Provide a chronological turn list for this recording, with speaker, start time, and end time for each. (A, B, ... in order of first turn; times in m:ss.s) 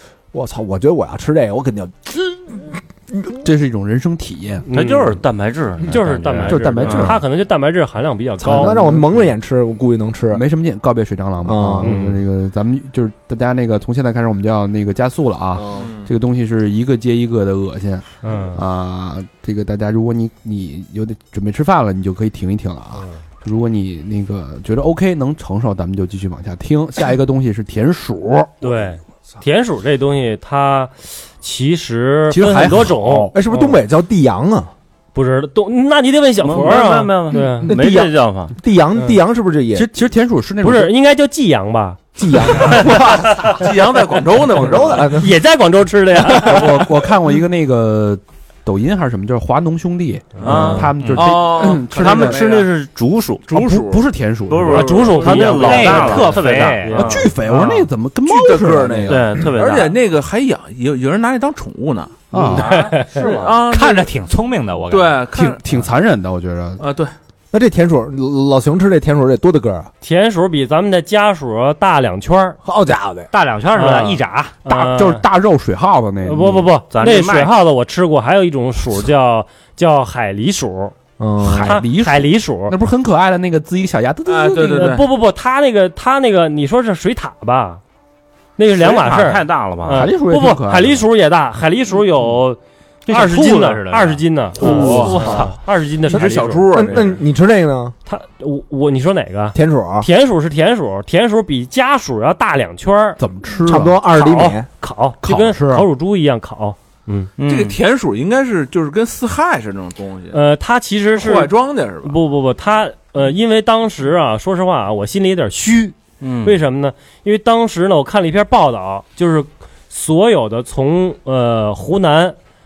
0:00.3-0:03.3 A
0:03.4-0:04.7 B
0:04.7-0:05.2 C
0:04.7-0:07.2 D
0:05.9-0:09.0 C
0:06.4-0:07.2 B
0:08.4-0:10.4 A
0:08.4-0:09.2 B
0:10.3-0:28.6 B
0:11.4-0:12.0 A
0:11.8-0:12.2 C
0:15.6-0:15.9 A
0:15.7-0:16.1 E
0:18.2-0:18.6 C
0:28.6-0:33.8 C
0:32.3-0:33.4 B
0:33.3-0:34.7 A
0:35.2-0:37.7 C
0:36.4-0:38.5 D
0:37.3-0:39.9 A
0:39.7-0:40.9 B
0:40.6-0:43.5 C
0:42.2-0:43.3 A
0:42.8-0:45.2 E
0:44.5-0:45.4 A
0:45.2-0:46.8 C
0:46.3-0:52.4 B
0:50.4-0:50.8 C
0:50.4-0:52.7 E
0:50.4-0:53.5 D
0:50.5-0:51.3 F
0:53.5-0:54.0 E
0:53.5-0:54.9 B
0:54.5-0:57.3 D
0:54.6-0:57.7 C
0:54.7-0:55.5 E
0:55.1-0:57.2 F
0:57.0-0:59.5 B
0:58.2-1:02.2 E
0:59.1-1:00.0 D
1:02.3-1:02.7 B
1:02.5-1:03.5 D
1:02.6-1:03.2 C
1:03.0-1:04.1 E
1:03.7-1:05.2 F
1:04.9-1:05.6 E
1:05.3-1:06.8 B
1:06.8-1:07.1 E
1:07.5-1:09.9 A
1:10.0-1:12.6 C
1:12.6-1:13.3 A
1:13.3-1:14.6 F
1:13.7-1:15.2 C
1:14.7-1:16.7 B
1:16.2-1:21.0 C
1:16.9-1:17.5 D
1:21.2-1:21.8 A
1:21.4-1:25.0 B
1:21.5-1:22.8 C
1:24.3-1:25.1 E
1:24.7-1:27.8 C
1:28.6-1:36.7 C
1:28.8-1:30.1 D
1:29.9-1:31.0 B
1:33.1-1:34.2 F
1:34.6-1:35.3 E
1:34.6-1:35.1 A
1:34.7-1:35.5 F
1:35.2-1:35.5 D
1:36.1-1:37.2 E
1:36.7-1:38.0 A
1:38.1-1:43.2 C
1:39.5-1:40.1 A
1:43.2-1:44.0 B
1:43.6-1:44.7 A
1:44.1-1:47.3 C
1:45.2-1:45.9 B
1:47.4-1:47.8 D
1:47.5-1:50.4 E
1:50.3-2:02.4 C
1:51.2-1:52.2 E
1:56.2-1:56.6 D